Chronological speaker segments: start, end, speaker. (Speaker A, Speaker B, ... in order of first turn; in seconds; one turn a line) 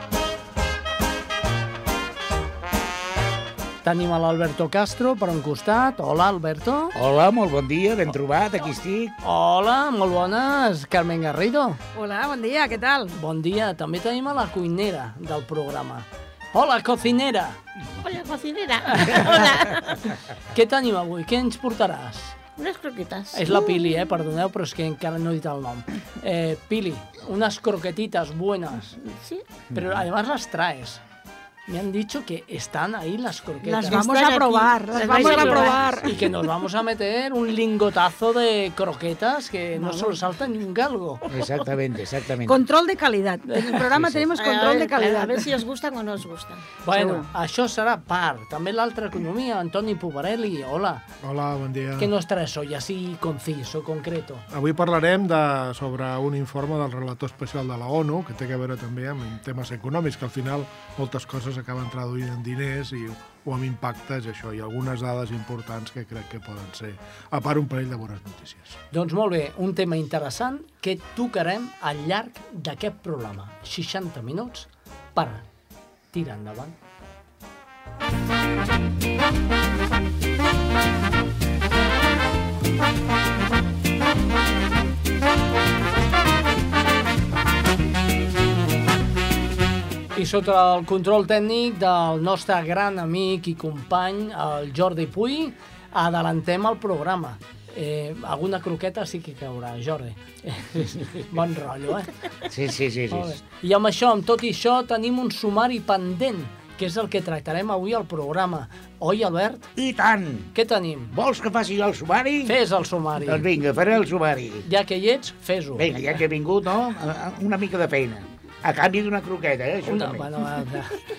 Speaker A: 3.8-6.9
Speaker B: 7.0-9.2
Speaker A: 9.2-11.8
Speaker C: 11.9-13.2
Speaker A: 13.2-17.6
Speaker D: 18.0-20.0
Speaker A: 18.9-19.6
Speaker A: 20.1-22.4
Speaker D: 22.6-24.0
Speaker A: 23.3-29.0
Speaker D: 29.0-29.7
Speaker B: 29.7-30.0
Speaker A: 29.7-31.0
Speaker A: 31.7-34.1
Speaker D: 33.6-36.4
Speaker C: 33.9-36.1
Speaker A: 35.1-41.2
Speaker C: 39.8-40.2
Speaker B: 41.3-42.6
Speaker C: 42.5-45.5
Speaker D: 44.3-46.7
Speaker A: 46.8-51.0
Speaker C: 46.9-47.3
Speaker E: 51.2-52.1
Speaker A: 52.0-54.5
Speaker E: 54.5-68.8
Speaker A: 68.9-75.5
Speaker A: 76.1-76.8
Speaker A: 90.2-102.2
Speaker B: 102.5-103.4
Speaker A: 103.1-109.7
Speaker B: 109.8-110.5
Speaker A: 110.5-111.1
Speaker B: 111.1-112.6
Speaker A: 112.5-113.5
Speaker B: 113.2-114.7
Speaker A: 114.7-115.9
Speaker B: 115.8-120.4
Speaker A: 119.9-121.0